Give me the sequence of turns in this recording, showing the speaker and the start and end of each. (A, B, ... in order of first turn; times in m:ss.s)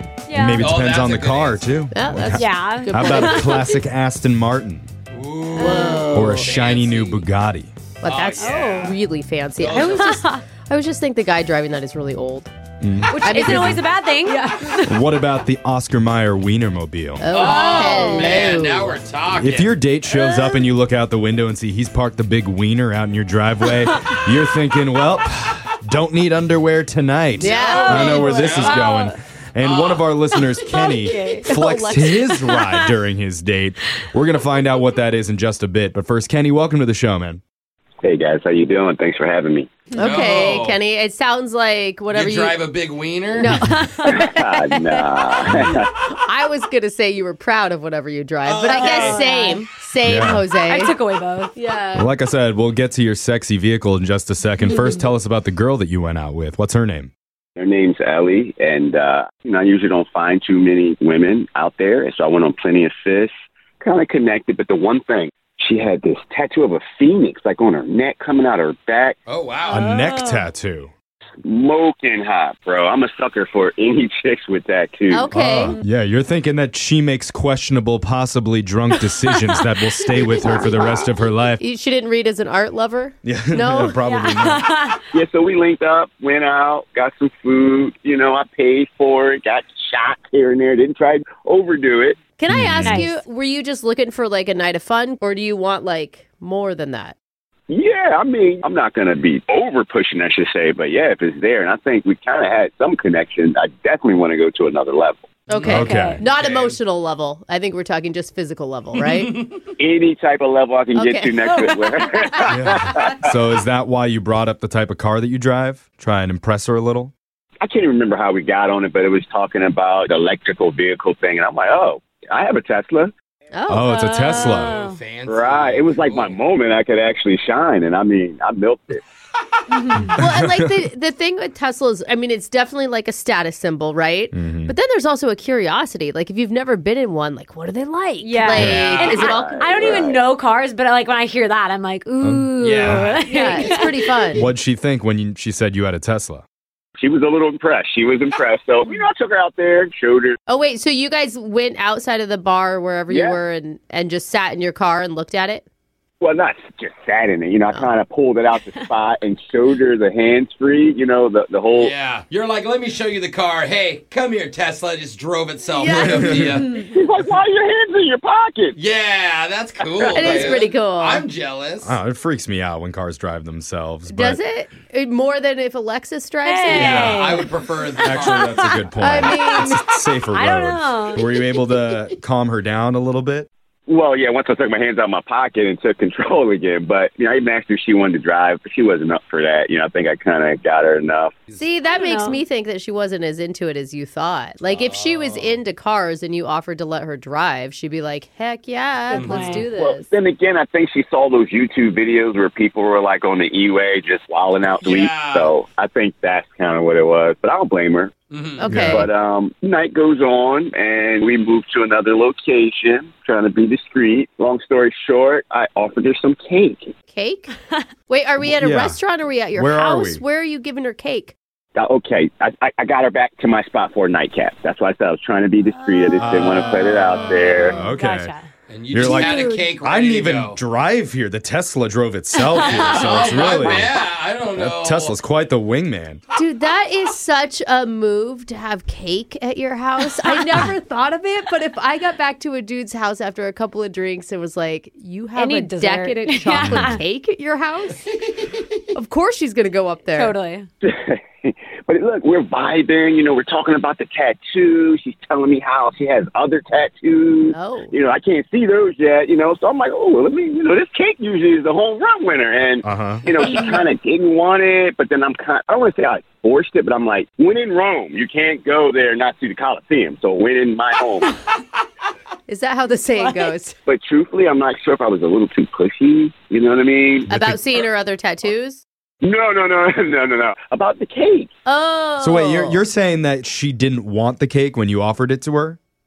0:00.3-0:00.8 A
0:00.3-0:04.9 B
0:00.5-0:00.7 C
0:00.5-0:01.8 D
0:01.9-0:03.7 C
0:02.3-0:03.8 A
0:05.1-0:07.3 D
0:05.6-0:06.5 A
0:05.6-0:06.5 C
0:06.1-0:07.7 B
0:08.0-0:12.5 C
0:08.0-0:09.0 D
0:08.4-0:08.8 A
0:09.6-0:10.2 D
0:09.8-0:10.4 A
0:12.8-0:13.8 B
0:13.1-0:15.0 A
0:13.2-0:13.9 C
0:14.9-0:17.3 B
0:17.2-0:19.0 C
0:17.3-0:20.7 D
0:17.8-0:18.4 A
0:19.4-0:37.4 B
0:27.4-0:30.6 D
0:27.4-0:29.0 C
0:27.5-0:29.2 A
0:30.4-0:31.5 A
0:31.4-0:32.7 C
0:32.4-0:32.8 A
0:38.0-0:39.8 E
0:39.9-0:40.8 D
0:39.9-0:42.6 C
0:42.1-0:43.5 D
0:43.3-0:51.0 C
0:43.5-0:44.1 A
0:44.0-0:45.9 E
0:48.4-0:49.2 D
0:48.7-0:49.6 A
0:50.0-0:50.5 B
0:50.6-0:51.5 A
0:51.5-0:52.1 C
0:52.0-0:57.1 B
0:54.6-0:55.1 A
0:57.6-1:09.2 E
1:09.3-1:09.9 D
1:09.7-1:10.5 A
1:09.7-1:10.9 B
1:11.4-1:15.3 E
1:15.1-1:15.8 C
1:15.3-1:21.6 B
1:19.1-1:19.4 A
1:20.2-1:21.1 C
1:20.2-1:20.8 A
1:21.6-1:24.0 C
1:23.2-1:24.7 B
1:24.0-1:25.0 A
1:25.1-1:32.2 E
1:32.4-1:37.2 C
1:32.5-1:33.0 B
1:32.8-1:33.2 A
1:37.7-1:45.4 E
1:45.5-1:49.5 C
1:45.6-1:46.8 D
1:45.7-1:46.2 B
1:45.7-1:46.2 A
1:49.0-1:49.6 D
1:49.8-1:53.4 E
1:50.9-1:51.6 C
1:51.4-1:52.8 A
1:52.2-1:52.7 C
1:52.6-1:57.1 B
1:57.6-2:03.1 E
2:03.5-2:04.5 C
2:03.7-2:04.7 B
2:03.9-2:05.0 A
2:04.5-2:06.4 D
2:05.3-2:09.0 E
2:09.7-2:10.2 A
2:09.7-2:10.2 D
2:10.2-2:20.1 C
2:10.4-2:10.7 B
2:14.3-2:14.7 B
2:18.2-2:23.9 A
2:18.6-2:19.2 D
2:19.1-2:20.2 E
2:22.2-2:23.1 B
2:22.6-2:23.7 D
2:23.2-2:24.5 C
2:24.4-2:26.4 B
2:27.0-2:30.4 E
2:30.5-2:35.6 C
2:33.1-2:33.4 E
2:36.2-2:41.9 E
2:41.8-2:46.8 D
2:45.7-2:46.9 C
2:46.8-2:48.8 E
2:48.8-2:52.0 D
2:50.0-2:50.5 E
2:50.1-2:51.2 C
2:51.8-2:54.4 B
2:54.1-2:57.2 C
2:56.4-2:59.4 A
2:56.7-2:58.9 D
2:58.0-3:03.5 B
2:58.9-2:59.8 C
3:00.3-3:02.1 A
3:03.9-3:11.4 E
3:11.6-3:20.1 C
3:11.9-3:12.4 A
3:14.7-3:15.6 D
3:19.1-3:19.7 D
3:19.2-3:19.6 A
3:19.7-3:28.1 E
3:24.6-3:25.5 D
3:28.3-3:28.7 D
3:28.6-3:29.1 C
3:28.7-3:29.1 B
3:28.9-3:36.9 E
3:37.1-3:37.5 C
3:38.1-3:41.4 C
3:38.6-3:39.0 B
3:39.6-3:40.2 B
3:41.8-3:47.8 E
3:45.8-3:48.5 A
3:46.2-3:46.9 B
3:47.4-3:48.0 D
3:47.5-3:48.3 B
3:48.7-3:50.6 D
3:49.0-3:49.7 C
3:49.8-3:53.9 B
3:52.5-3:53.6 A
3:52.5-3:55.2 D
3:53.4-3:54.0 E
3:54.6-3:56.2 B
3:56.4-4:08.1 C
4:00.0-4:00.6 A
4:05.4-4:07.0 A
4:06.6-4:06.9 B
4:08.9-4:10.3 C
4:10.1-4:10.7 A
4:10.8-4:31.3 E
4:17.5-4:17.9 C
4:22.8-4:23.2 B
4:32.5-4:33.8 C
4:33.1-4:33.6 A
4:33.9-4:37.3 E
4:37.3-4:38.8 C
4:37.3-4:37.6 B
4:39.2-4:41.5 E
4:41.7-4:42.9 C
4:42.2-4:45.8 B